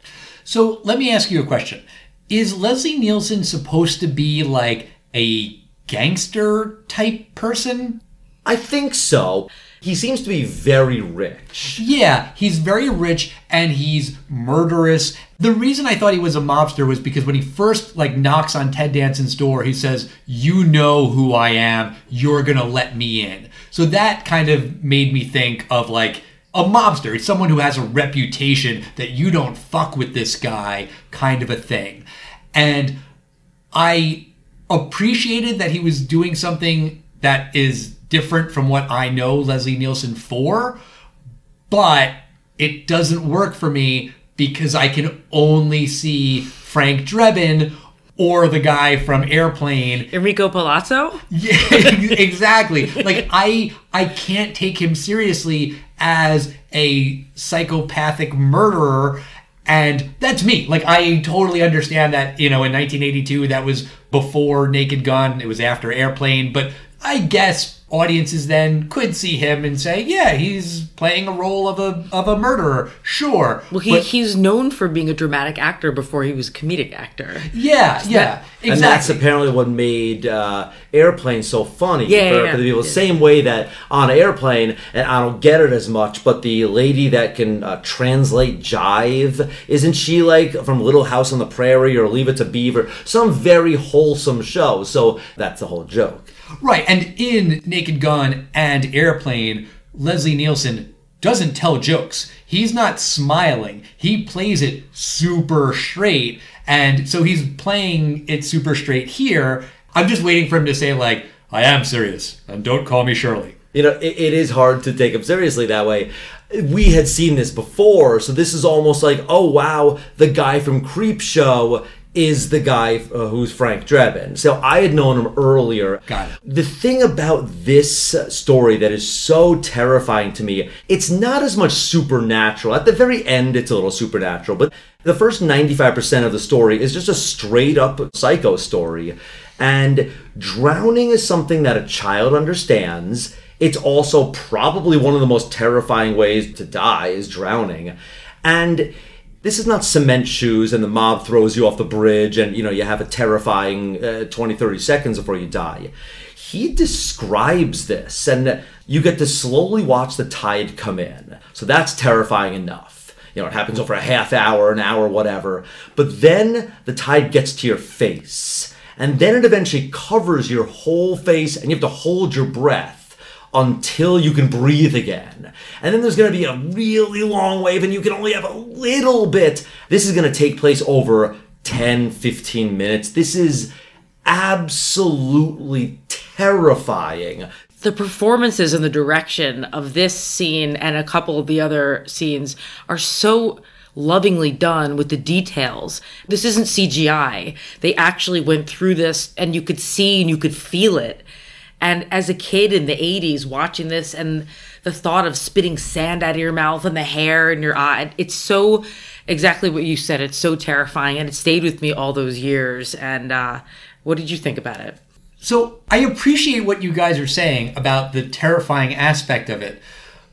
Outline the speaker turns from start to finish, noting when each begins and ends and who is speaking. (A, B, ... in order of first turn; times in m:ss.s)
0:00.5-0:08.0 A
0:08.5-0:11.8 B
0:11.7-0:33.0 A
0:33.7-0:40.8 A
0:41.7-0:50.1 A
0:50.1-0:51.2 C
0:51.3-1:14.0 A
1:13.7-1:17.5 C
1:17.5-1:19.2 A
1:18.7-1:36.3 B
1:22.1-1:22.9 C
1:36.6-1:53.6 A
1:53.7-3:03.7 B
2:06.1-2:06.4 A
3:04.3-3:07.5 B
3:07.8-3:21.2 C
3:21.8-3:35.0 C
3:35.4-3:39.8 A